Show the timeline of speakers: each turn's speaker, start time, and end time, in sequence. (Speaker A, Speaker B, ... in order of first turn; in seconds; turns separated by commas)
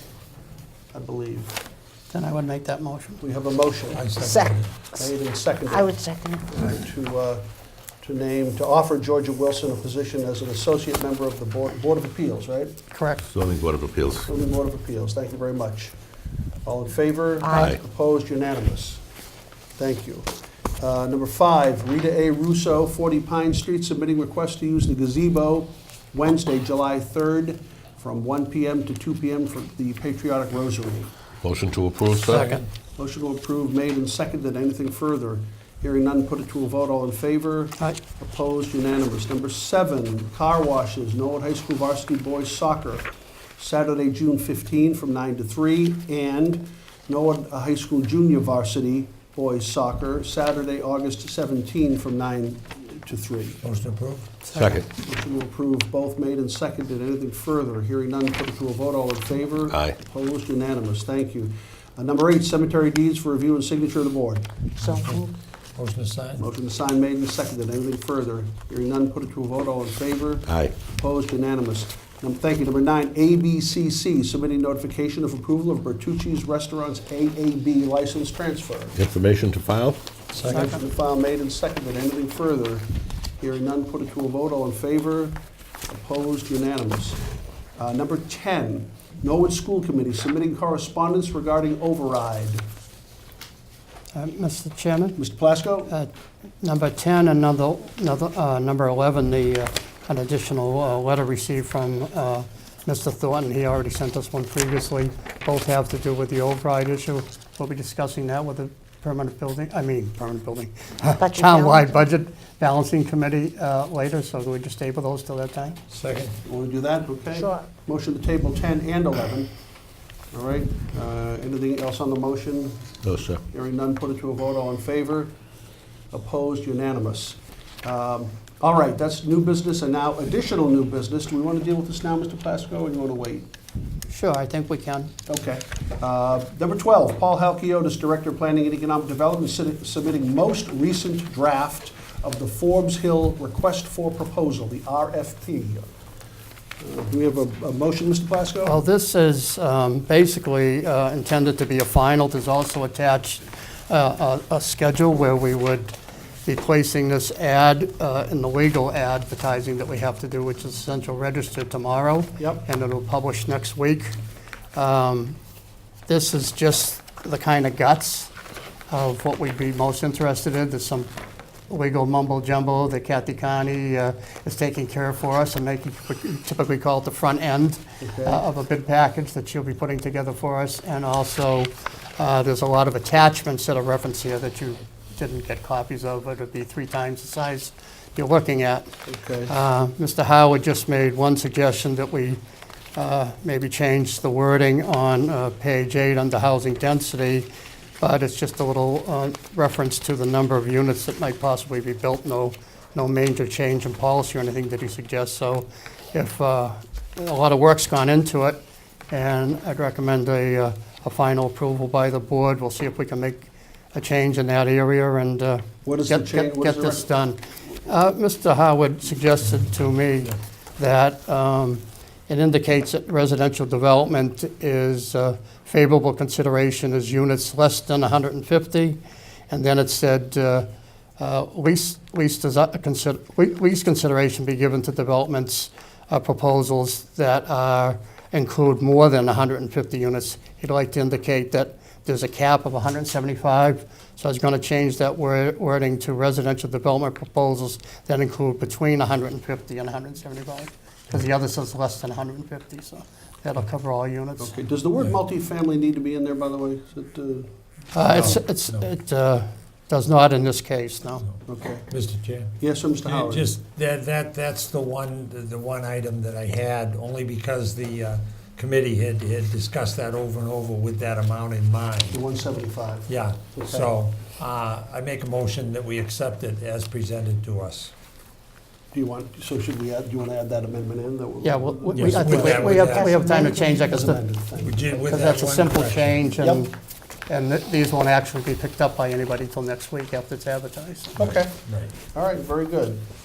Speaker A: 0.9-1.6, Speaker B: 2.1-3.2, Speaker A: 3.2-4.0, Speaker C: 3.9-4.7, Speaker D: 4.2-6.5, Speaker A: 5.0-7.4, Speaker A: 8.0-12.7, Speaker B: 12.9-13.3, Speaker E: 13.3-14.3, Speaker A: 14.2-15.9, Speaker A: 16.6-19.0, Speaker A: 19.8-31.1, Speaker E: 31.4-32.5, Speaker B: 32.3-32.6, Speaker A: 33.0-53.6, Speaker C: 53.6-54.4, Speaker B: 54.5-54.8, Speaker E: 54.5-54.9, Speaker A: 54.9-64.5, Speaker E: 59.7-59.9, Speaker C: 64.8-65.2, Speaker D: 64.8-65.3, Speaker C: 65.8-66.4, Speaker A: 66.4-79.0, Speaker E: 70.5-70.7, Speaker E: 79.0-80.0, Speaker C: 80.3-80.7, Speaker A: 80.4-82.9, Speaker B: 80.5-80.8, Speaker A: 83.4-85.3, Speaker A: 85.9-87.2, Speaker A: 87.8-92.6, Speaker B: 94.1-95.2, Speaker A: 95.2-95.9, Speaker B: 96.6-115.8, Speaker D: 111.2-112.0, Speaker C: 115.9-116.4, Speaker A: 116.4-119.5, Speaker A: 120.3-125.3, Speaker E: 123.0-123.4, Speaker A: 126.1-133.5, Speaker B: 134.1-135.1, Speaker A: 135.3-145.9, Speaker A: 146.8-148.8, Speaker B: 148.6-155.9, Speaker B: 156.4-164.2, Speaker A: 162.4-162.6, Speaker B: 164.7-165.4, Speaker B: 166.1-168.3, Speaker B: 168.9-171.1, Speaker B: 171.7-188.9, Speaker A: 178.0-178.4, Speaker A: 189.1-189.5, Speaker B: 189.4-192.4, Speaker B: 192.9-197.5, Speaker B: 198.0-208.6, Speaker B: 209.1-229.0, Speaker A: 215.8-217.1, Speaker B: 229.5-230.7, Speaker B: 231.2-254.6, Speaker A: 254.4-257.5, Speaker B: 257.9-261.2, Speaker C: 258.0-258.8, Speaker C: 261.2-272.2, Speaker A: 261.4-261.9, Speaker A: 262.6-263.5, Speaker A: 272.1-273.9, Speaker C: 273.1-277.9, Speaker A: 278.9-285.2, Speaker B: 281.4-284.3, Speaker C: 281.9-283.2, Speaker C: 284.6-286.3, Speaker B: 285.1-286.7, Speaker A: 286.4-286.6, Speaker B: 287.3-291.2, Speaker A: 291.1-293.0, Speaker C: 291.2-291.9